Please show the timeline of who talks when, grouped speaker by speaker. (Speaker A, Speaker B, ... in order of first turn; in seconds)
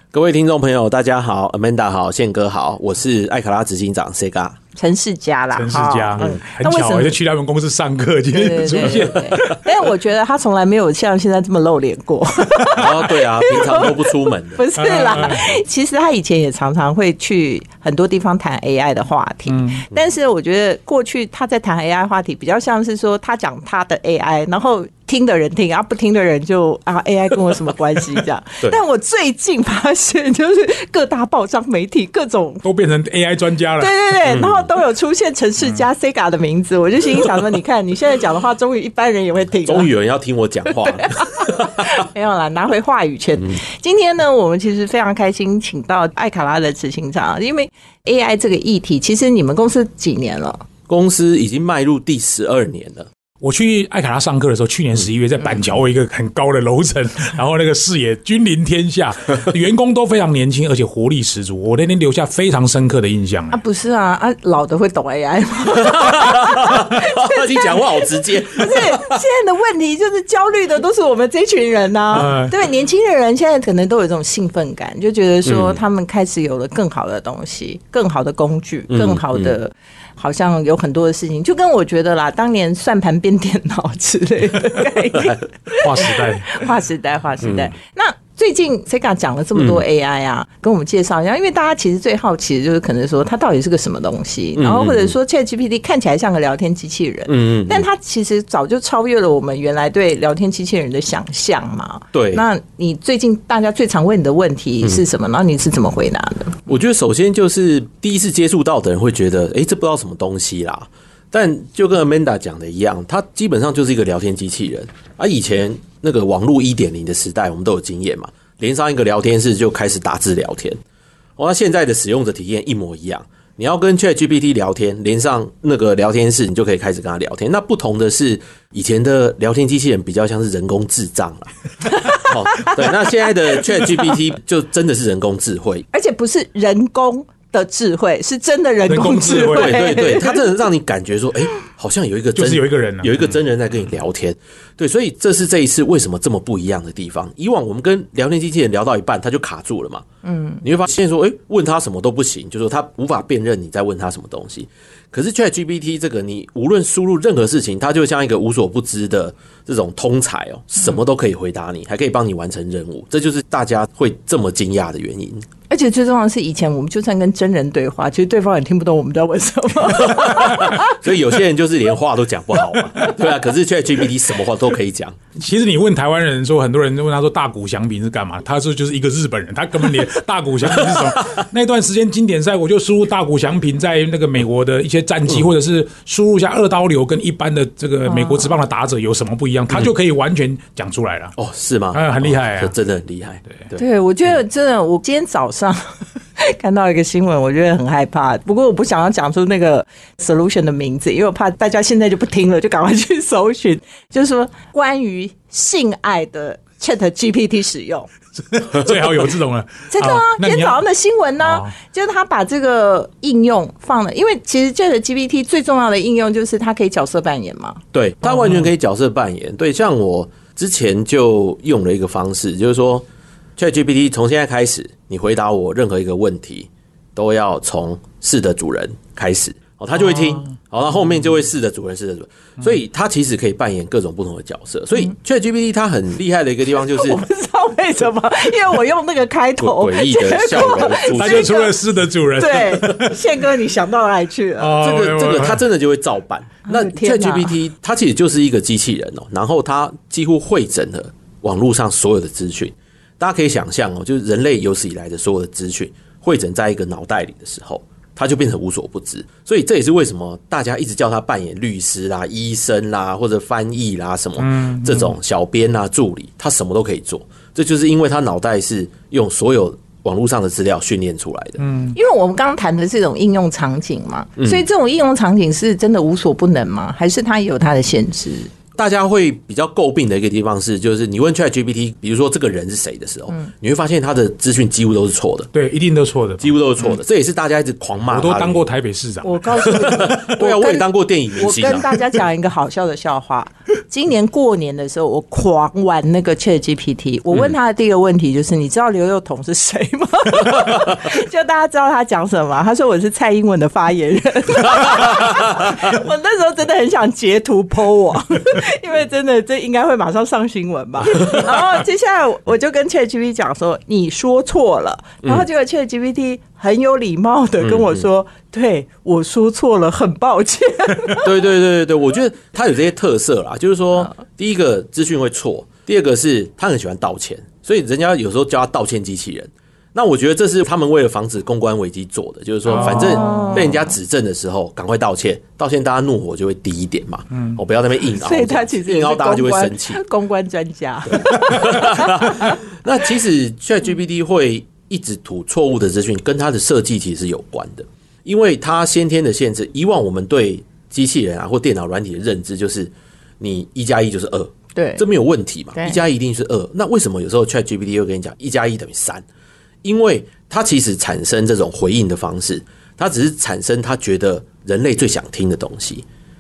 Speaker A: 0.1-4.6, 8.9-9.5, 12.8-15.3, 34.3-34.7, 39.6-42.1, 50.9-53.1, 65.7-69.2, 75.5-75.8, 78.9-79.6, 87.4-87.7, 89.6-89.8, 94.6-95.2, 97.3-97.9, 102.1-102.5, 106.7-120.8, 121.4-135.8, 139.5-150.1, 150.6-165.5, 170.0-175.2, 191.4-193.8, 217.9-223.1, 223.6-237.2, 239.6-241.6, 244.8-271.6, 274.4-274.6, 278.8-285.5, 286.4-288.7, 289.6-292.0, 305.3-305.7, 311.1-311.6, 317.6-318.1, 321.1-340.0, 341.1-359.2, 359.8-366.1
Speaker B: 4.8-7.1, 8.3-32.6, 33.8-39.9, 40.7-50.6, 63.5-106.6, 132.0-133.1, 133.6-134.0, 135.9-140.5, 150.2-150.6, 165.7-170.9, 188.1-188.5, 193.8-208.1, 209.9-217.8, 236.8-241.8, 242.4-244.8, 246.7-247.6, 271.9-278.5, 289.2-321.4, 332.8-333.9, 338.1-342.4, 354.8-355.0
Speaker C: 5.5-9.6, 12.6-12.9, 14.8-15.5, 19.5-19.8, 32.6-34.0, 53.4-63.6, 72.1-72.5, 85.8-86.6, 138.9-140.0, 142.3-143.1, 170.6-170.9, 175.4-191.4, 191.9-192.7, 208.5-210.8, 211.4-211.8, 218.3-218.6, 241.1-243.2, 244.6-245.6, 264.4-265.1, 271.6-272.0, 285.5-286.5, 288.1-289.4, 332.7-333.4